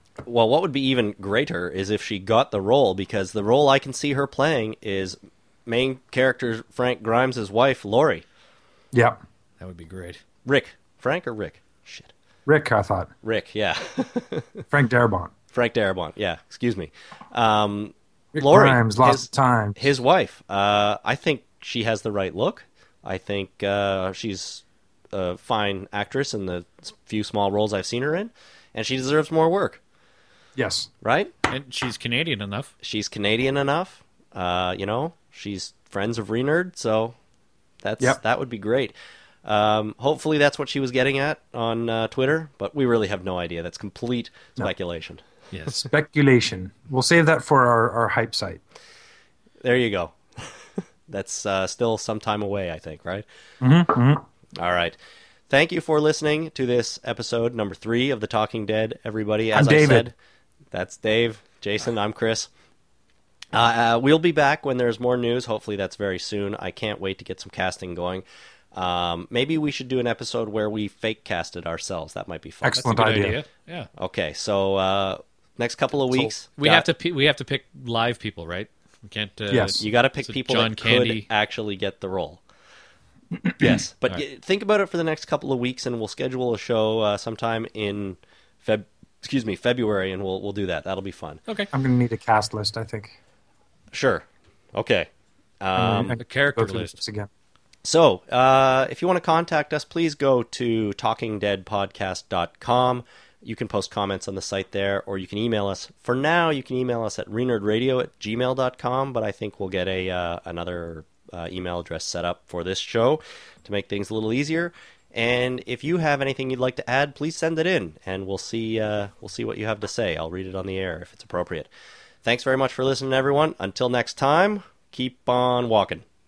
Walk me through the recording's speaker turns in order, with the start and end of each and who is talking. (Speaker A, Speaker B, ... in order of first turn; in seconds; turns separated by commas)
Speaker A: 0.2-8.2, Speaker B: 8.9-9.2, Speaker C: 9.6-10.2, Speaker A: 10.4-12.1, Speaker B: 12.4-13.1, Speaker A: 13.2-14.6, Speaker B: 14.7-15.3, Speaker A: 15.5-29.8, Speaker B: 18.3-19.9, Speaker B: 30.6-30.9, Speaker A: 31.0-31.3, Speaker C: 31.5-32.7, Speaker A: 32.8-37.1, Speaker A: 37.8-38.9, Speaker A: 39.4-45.2, Speaker C: 45.5-45.8, Speaker B: 45.7-48.6, Speaker A: 49.6-53.2, Speaker B: 53.6-54.2, Speaker A: 54.5-55.0, Speaker A: 55.5-60.1, Speaker B: 59.5-60.0, Speaker A: 60.7-62.5, Speaker A: 63.5-73.2, Speaker B: 72.6-73.4, Speaker C: 72.8-73.9, Speaker A: 74.0-76.8, Speaker C: 76.6-81.3, Speaker B: 79.5-79.8, Speaker A: 79.8-82.4, Speaker B: 83.4-83.8, Speaker A: 83.6-91.4, Speaker B: 91.7-93.2, Speaker A: 93.9-95.1, Speaker A: 95.6-96.2, Speaker B: 95.7-97.3, Speaker C: 96.2-97.0, Speaker A: 97.8-121.7, Speaker A: 122.2-126.0